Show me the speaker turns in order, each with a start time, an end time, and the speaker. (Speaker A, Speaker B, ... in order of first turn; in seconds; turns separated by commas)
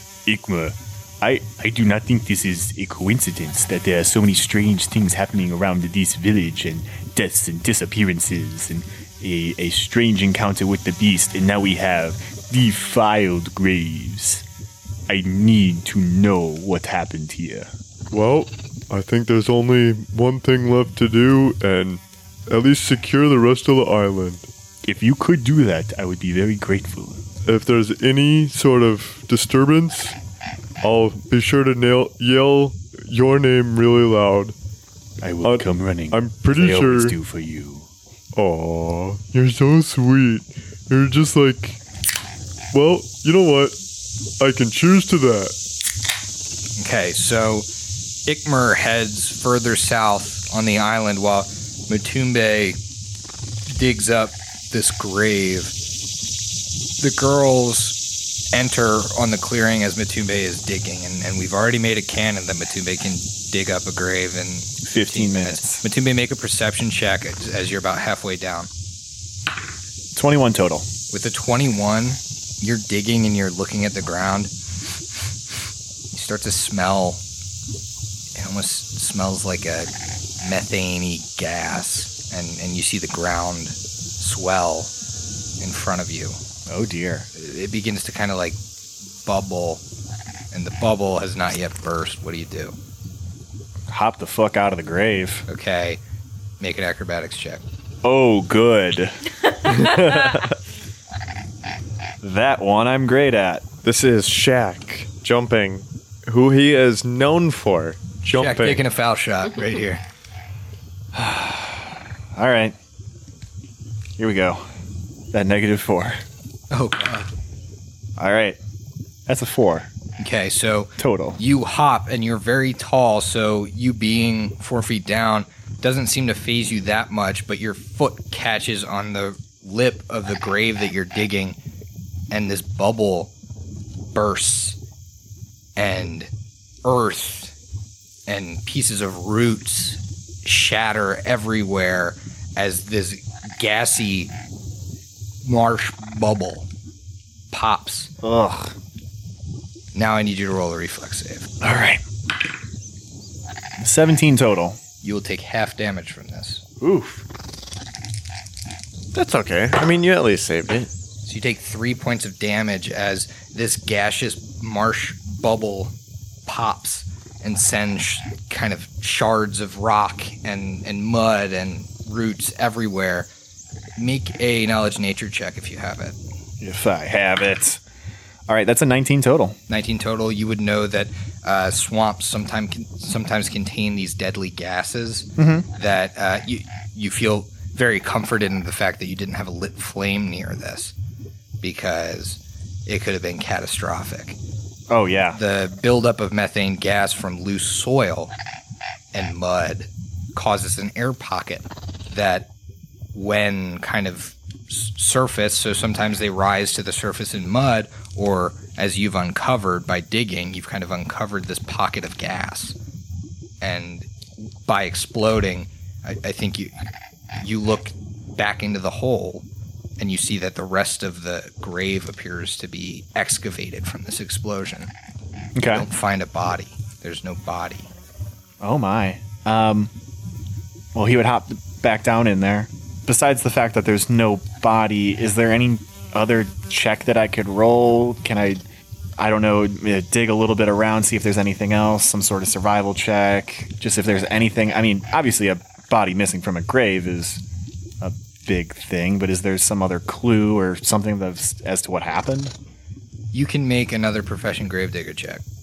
Speaker A: 0.2-14.4, Speaker A: 15.1-17.7, Speaker B: 18.1-24.5, Speaker A: 24.8-27.2, Speaker B: 27.4-30.1, Speaker B: 30.8-34.5, Speaker A: 35.2-37.9, Speaker B: 35.4-37.2, Speaker B: 38.4-41.8, Speaker B: 42.7-43.8, Speaker B: 44.4-45.5, Speaker C: 46.8-47.7, Speaker C: 48.2-52.8, Speaker C: 53.7-55.7, Speaker C: 57.0-58.0, Speaker C: 58.5-68.7, Speaker A: 64.8-65.8, Speaker A: 70.1-70.9, Speaker C: 71.1-74.5, Speaker C: 76.1-77.2, Speaker C: 78.3-79.9, Speaker C: 80.4-84.9, Speaker C: 85.6-86.4, Speaker A: 86.7-87.3, Speaker C: 87.3-88.6, Speaker C: 89.2-89.8, Speaker C: 90.5-92.8, Speaker A: 93.9-95.4, Speaker C: 95.5-96.0, Speaker C: 96.6-97.6, Speaker A: 98.0-100.3, Speaker D: 99.7-100.5, Speaker A: 102.2-103.6, Speaker D: 103.8-108.8, Speaker C: 108.3-110.0, Speaker A: 111.1-112.8, Speaker A: 114.2-114.7, Speaker A: 115.3-116.2, Speaker C: 116.7-117.3, Speaker A: 118.2-118.6, Speaker A: 119.3-119.9, Speaker C: 120.2-131.6, Speaker A: 121.0-121.4, Speaker C: 132.3-133.3, Speaker C: 134.1-134.8, Speaker C: 135.8-136.3, Speaker C: 136.8-137.5, Speaker C: 138.3-144.3, Speaker C: 145.4-146.7, Speaker C: 147.5-148.1, Speaker A: 148.2-148.7, Speaker C: 149.9-151.5, Speaker A: 151.6-152.0, Speaker A: 153.8-154.8, Speaker C: 155.0-156.6, Speaker A: 156.8-157.2, Speaker D: 159.1-160.9, Speaker C: 161.2-165.9, Speaker C: 166.4-173.3, Speaker C: 174.0-176.2, Speaker A: 176.6-177.8, Speaker A: 178.5-179.6, Speaker C: 179.7-190.9, Speaker A: 185.4-185.7, Speaker C: 191.6-194.4, Speaker A: 194.9-195.4, Speaker C: 195.3-198.3, Speaker C: 199.1-202.5, Speaker C: 203.1-212.8, Speaker C: 213.6-214.1, Speaker C: 214.7-216.7, Speaker C: 217.4-219.4, Speaker C: 220.0-224.9, Speaker A: 225.6-225.9, Speaker C: 225.7-227.9, Speaker A: 228.6-229.9, Speaker A: 230.9-238.6, Speaker A: 239.2-247.4, Speaker A: 248.0-252.5, Speaker C: 253.3-255.4